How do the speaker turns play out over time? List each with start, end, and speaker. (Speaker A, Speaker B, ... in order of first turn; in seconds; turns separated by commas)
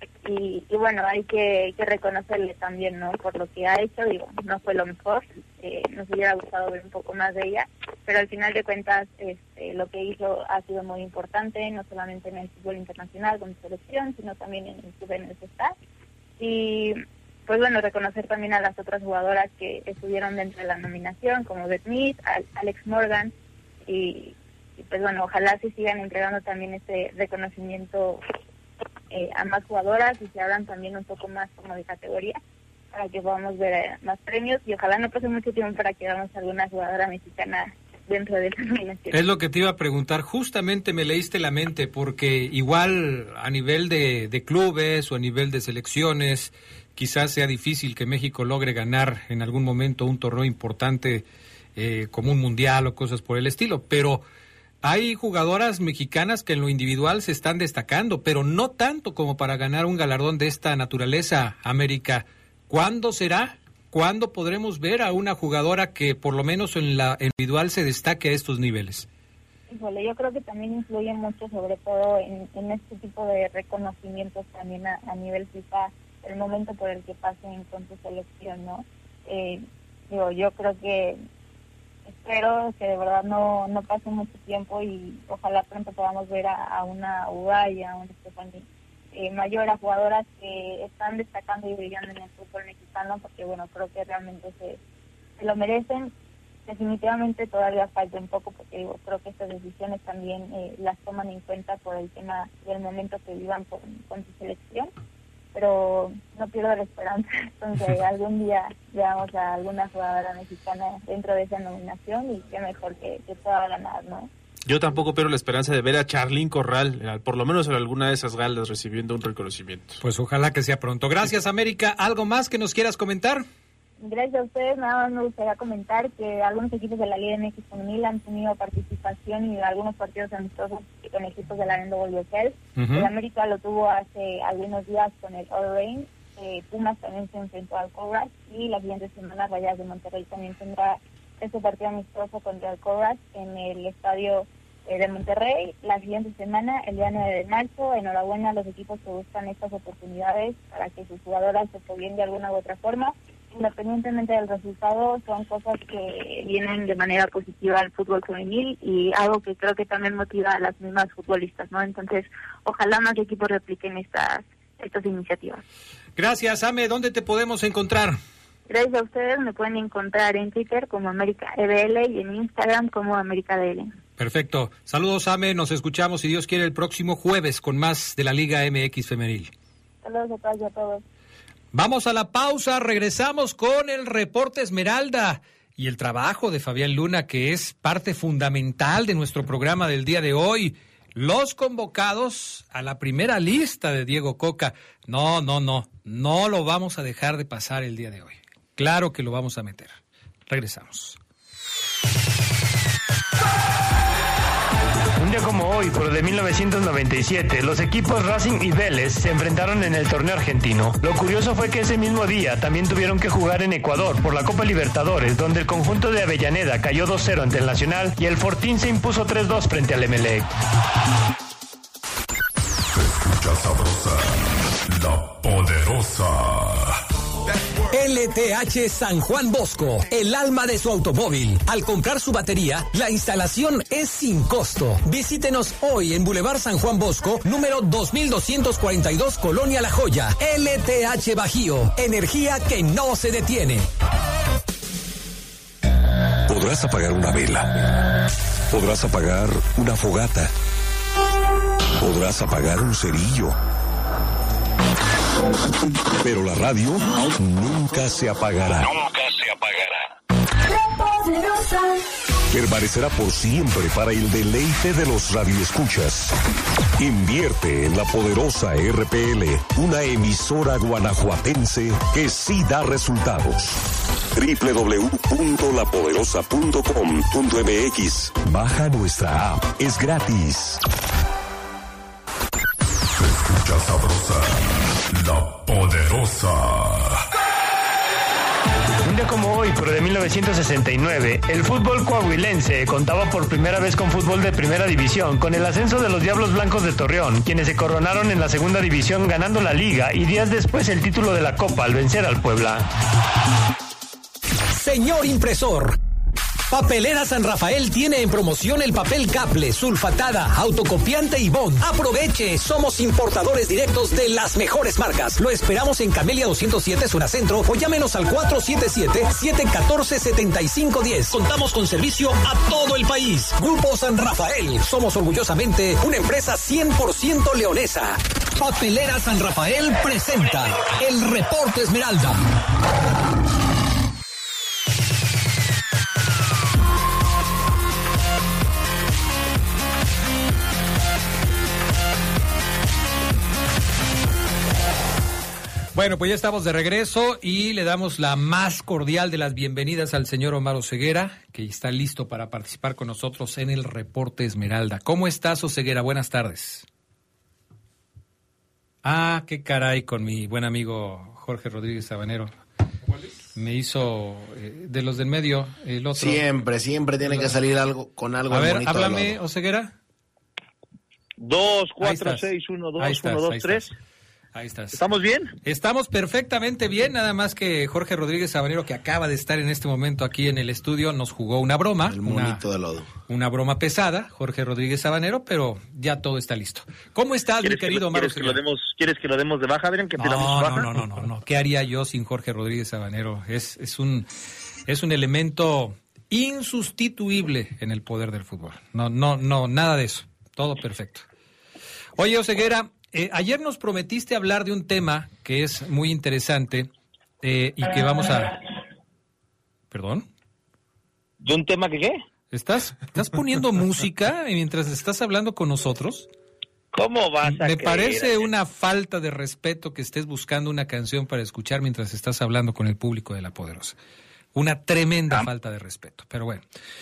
Speaker A: 0.2-15.7, Speaker A: 16.4-23.3, Speaker A: 23.9-28.2, Speaker A: 29.1-32.4, Speaker A: 32.9-39.2, Speaker B: 39.1-51.2, Speaker B: 51.8-54.2, Speaker B: 54.8-69.0, Speaker A: 69.7-81.2, Speaker A: 82.1-94.8, Speaker A: 95.4-96.1, Speaker A: 96.7-104.9, Speaker A: 105.5-114.3, Speaker C: 114.7-120.0, Speaker B: 120.0-123.4, Speaker A: 124.0-165.6, Speaker B: 132.8-133.1, Speaker B: 166.2-168.2, Speaker A: 168.7-173.9, Speaker B: 174.2-179.5, Speaker A: 180.0-181.0, Speaker B: 181.7-201.2, Speaker D: 205.2-220.5, Speaker E: 222.8-227.0, Speaker F: 227.9-243.8, Speaker G: 246.5-247.7, Speaker G: 248.7-250.5, Speaker G: 252.0-253.6, Speaker G: 256.2-258.9, Speaker G: 262.5-266.3, Speaker G: 267.0-273.7, Speaker G: 274.4-280.8, Speaker E: 283.0-287.2, Speaker D: 289.0-302.9, Speaker F: 304.8-305.9, Speaker F: 306.7-332.4, Speaker B: 345.9-356.8, Speaker B: 359.0-362.5, Speaker B: 363.5-366.4, Speaker H: 366.1-369.4, Speaker B: 367.2-367.5, Speaker B: 368.5-369.9, Speaker I: 371.4-373.9, Speaker B: 372.0-373.9, Speaker B: 374.5-375.0, Speaker I: 374.9-375.5, Speaker B: 375.6-382.6, Speaker H: 382.0-383.1, Speaker B: 383.3-388.6, Speaker I: 387.6-390.9, Speaker B: 390.2-394.3, Speaker B: 394.9-401.2, Speaker B: 402.2-406.9, Speaker B: 407.4-408.6, Speaker B: 409.9-410.3, Speaker I: 411.4-412.2, Speaker B: 412.5-416.3, Speaker I: 416.9-418.5, Speaker B: 417.4-423.9, Speaker B: 424.5-426.6